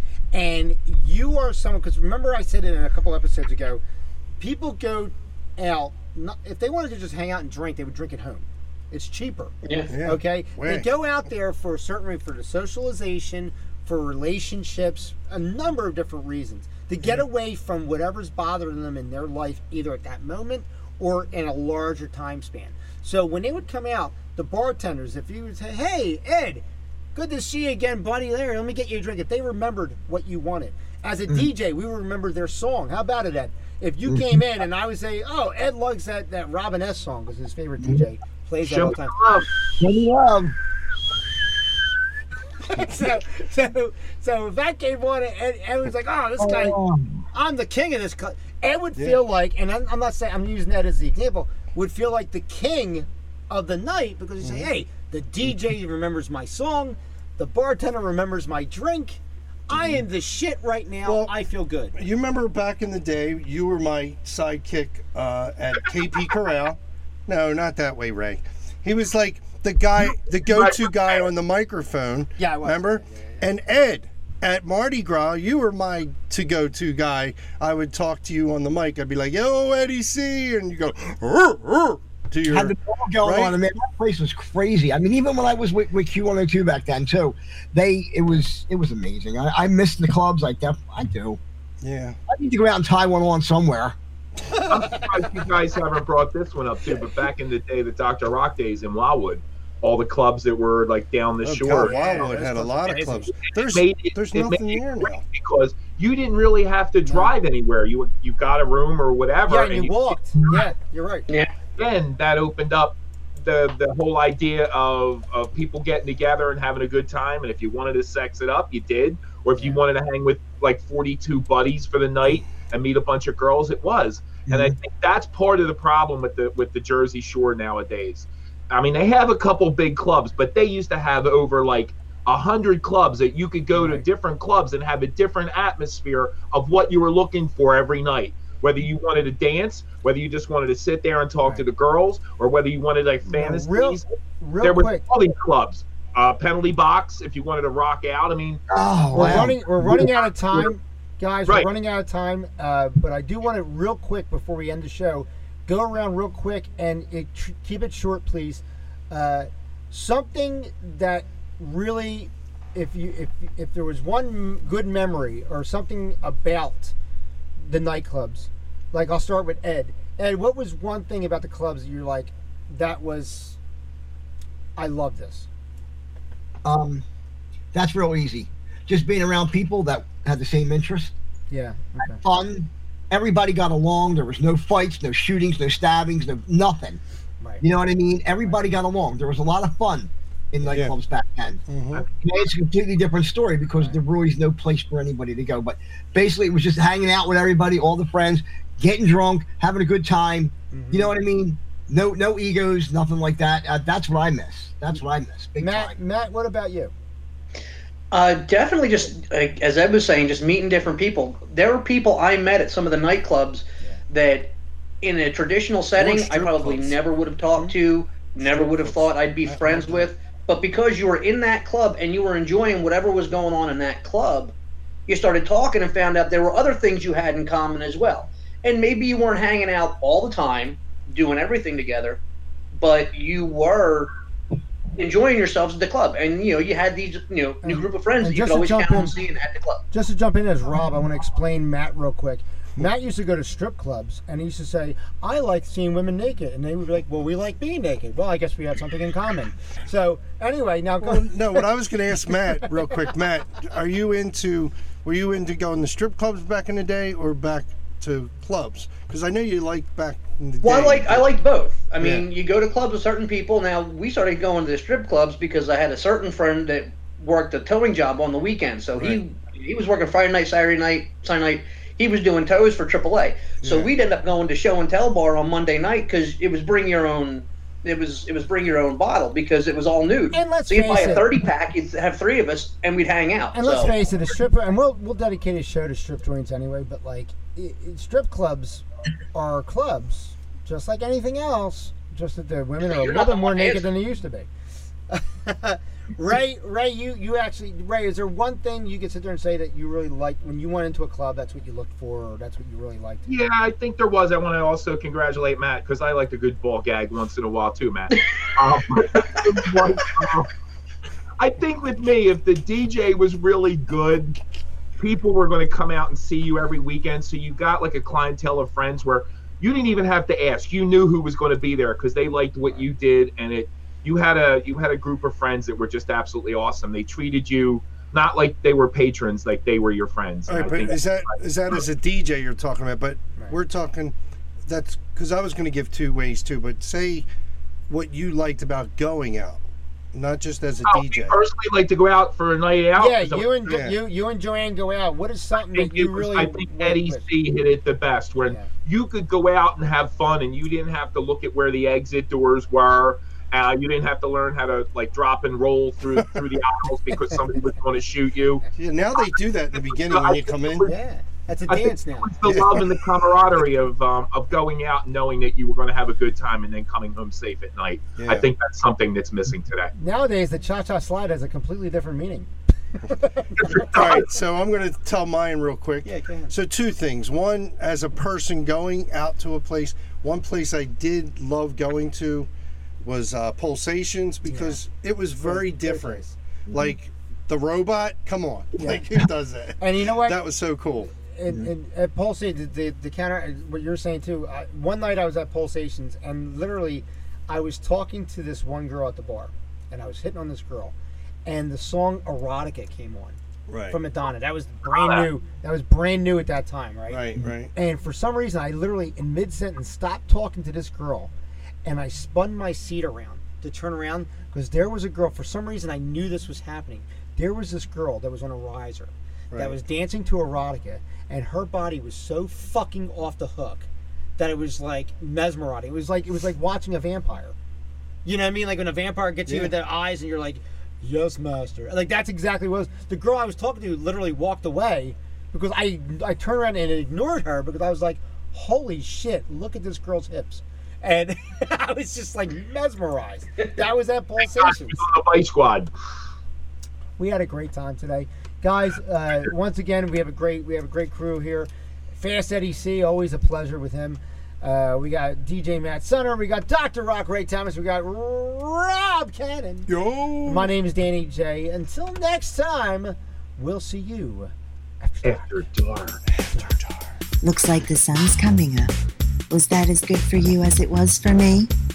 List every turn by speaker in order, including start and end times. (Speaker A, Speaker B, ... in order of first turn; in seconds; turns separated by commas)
Speaker A: 0.3-3.8, Speaker A: 4.4-26.6, Speaker B: 9.6-9.9, Speaker C: 9.9-10.9, Speaker A: 27.1-39.2, Speaker D: 38.6-39.5, Speaker E: 39.8-40.5, Speaker A: 42.6-46.8, Speaker E: 46.4-47.2, Speaker A: 47.3-62.0, Speaker C: 54.4-54.7, Speaker C: 59.7-60.0, Speaker C: 61.0-61.3, Speaker C: 61.9-83.5, Speaker D: 70.0-71.2, Speaker A: 72.4-73.5, Speaker E: 82.5-91.4, Speaker C: 91.8-92.2, Speaker E: 92.3-94.0, Speaker C: 94.4-94.9, Speaker D: 94.7-102.3, Speaker C: 101.4-105.2, Speaker A: 101.7-103.3, Speaker D: 103.5-110.6, Speaker A: 107.0-107.3, Speaker A: 109.5-111.3, Speaker D: 111.8-144.0, Speaker A: 119.5-119.8, Speaker E: 124.5-124.7, Speaker A: 133.7-134.0, Speaker A: 143.3-145.0, Speaker D: 144.6-148.6, Speaker E: 148.7-150.7, Speaker A: 149.1-166.9, Speaker C: 149.2-149.5, Speaker A: 167.6-173.6, Speaker A: 174.8-175.5, Speaker E: 176.6-177.0, Speaker E: 177.7-181.1, Speaker A: 181.5-182.2, Speaker E: 182.2-187.0, Speaker A: 187.4-187.7, Speaker E: 187.6-191.6, Speaker A: 188.4-188.7, Speaker C: 190.6-190.9, Speaker C: 191.7-192.0, Speaker E: 192.2-206.0, Speaker A: 200.7-201.1, Speaker A: 205.6-206.9, Speaker B: 208.1-224.5, Speaker C: 216.0-217.0, Speaker C: 218.5-220.0, Speaker B: 225.1-232.2, Speaker B: 232.7-234.1, Speaker B: 235.0-239.8, Speaker A: 237.6-239.2, Speaker A: 239.9-251.7, Speaker C: 251.0-261.2, Speaker B: 260.6-284.0, Speaker C: 262.0-262.2, Speaker C: 273.6-273.9, Speaker A: 280.3-281.3, Speaker A: 283.5-294.5, Speaker B: 292.8-293.9, Speaker A: 295.1-303.3, Speaker D: 303.3-310.5, Speaker B: 308.1-308.4, Speaker B: 309.1-309.6, Speaker D: 311.4-314.4, Speaker D: 315.0-331.3, Speaker C: 330.5-334.1, Speaker C: 334.6-337.2, Speaker C: 337.9-339.6, Speaker C: 340.1-341.4, Speaker D: 340.9-343.6, Speaker A: 342.9-347.2, Speaker C: 343.7-344.0, Speaker D: 345.7-358.6, Speaker C: 358.8-360.9, Speaker D: 359.8-360.9, Speaker A: 360.8-362.3, Speaker D: 361.7-369.9, Speaker C: 362.4-362.9, Speaker C: 368.2-368.4, Speaker A: 370.0-372.5, Speaker A: 373.0-373.9, Speaker D: 373.6-374.3, Speaker C: 373.8-382.5, Speaker A: 376.0-376.6, Speaker C: 383.0-391.1, Speaker A: 384.4-384.8, Speaker A: 385.4-386.3, Speaker E: 386.7-386.9, Speaker A: 388.8-389.1, Speaker A: 389.8-390.4, Speaker A: 391.1-400.9, Speaker A: 401.4-403.4, Speaker C: 403.7-404.0, Speaker A: 403.9-411.3, Speaker D: 404.9-405.3, Speaker C: 407.1-407.7, Speaker A: 411.8-423.9, Speaker C: 419.5-419.8, Speaker A: 424.4-427.5, Speaker A: 428.2-445.1, Speaker C: 429.4-429.7, Speaker D: 444.6-445.9, Speaker A: 447.2-459.9, Speaker C: 459.9-460.7, Speaker A: 460.4-465.6, Speaker D: 465.2-466.2, Speaker C: 466.4-467.0, Speaker A: 466.5-466.8, Speaker F: 467.4-468.9, Speaker F: 469.5-471.7